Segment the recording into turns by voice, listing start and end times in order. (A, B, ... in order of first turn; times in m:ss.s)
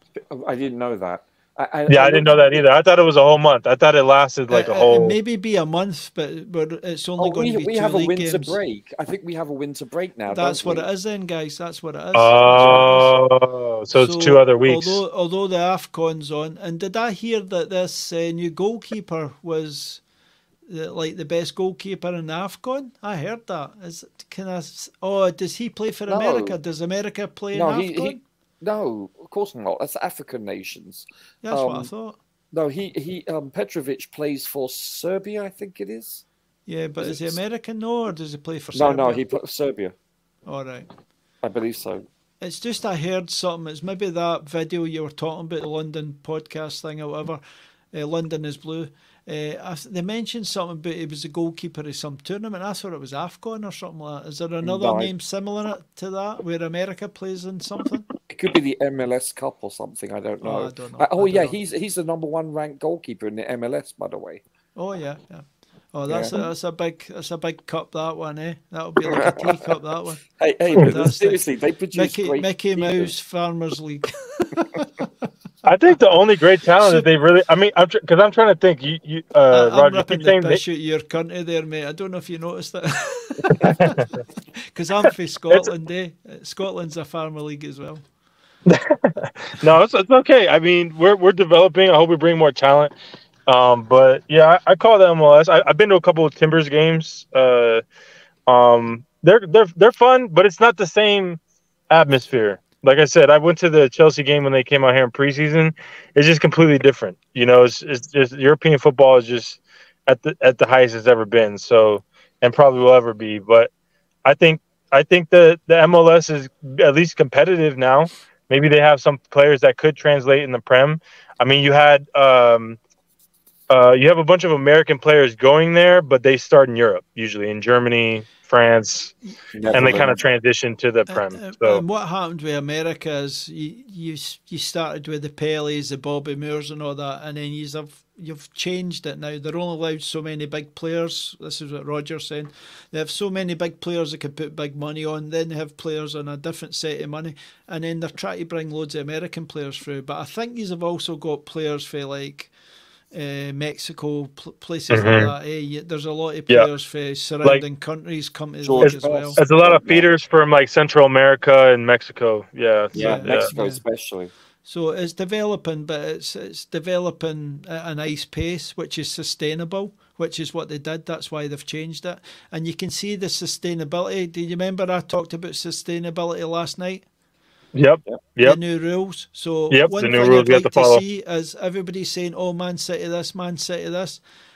0:00.3-0:02.7 A
0:01.9-0:05.2 B
0:04.5-0:08.6 C
0:07.2-0:10.9 A
0:10.3-0:13.1 C
0:12.1-0:15.0 B
0:12.5-0:13.0 A
0:13.9-0:20.0 C
0:20.7-0:28.2 C
0:26.1-0:26.6 A
0:27.5-0:31.9 A
0:31.4-0:32.2 C
0:32.5-0:36.2 A
0:36.7-0:39.3 C
0:37.0-0:37.4 A
0:38.7-0:39.9 A
0:40.5-0:40.9 C
0:41.4-0:42.0 A
0:42.4-0:47.4 C
0:47.9-0:58.1 C
0:54.6-0:55.1 A
0:58.3-1:04.4 A
1:00.4-1:01.6 C
1:04.8-1:15.1 C
1:06.1-1:06.3 A
1:09.1-1:09.4 A
1:10.4-1:13.1 A
1:15.6-1:20.6 B
1:16.8-1:17.1 C
1:19.5-1:24.1 C
1:23.5-1:24.0 B
1:24.6-1:28.0 C
1:28.7-1:33.0 B
1:33.5-1:37.8 B
1:38.5-1:41.4 B
1:41.9-1:53.7 B
1:54.2-2:02.8 B
2:03.7-2:09.1 B
2:09.5-2:10.2 A
2:09.7-2:11.8 B
2:11.1-2:32.5 C
2:33.1-2:39.4 C
2:34.9-2:35.3 B
2:38.6-2:40.1 A
2:38.8-2:43.5 B
2:42.9-2:43.8 C
2:42.9-2:44.3 A
2:44.6-2:57.0 C
2:57.7-2:58.6 B
2:58.4-3:04.2 C
2:59.7-3:01.0 B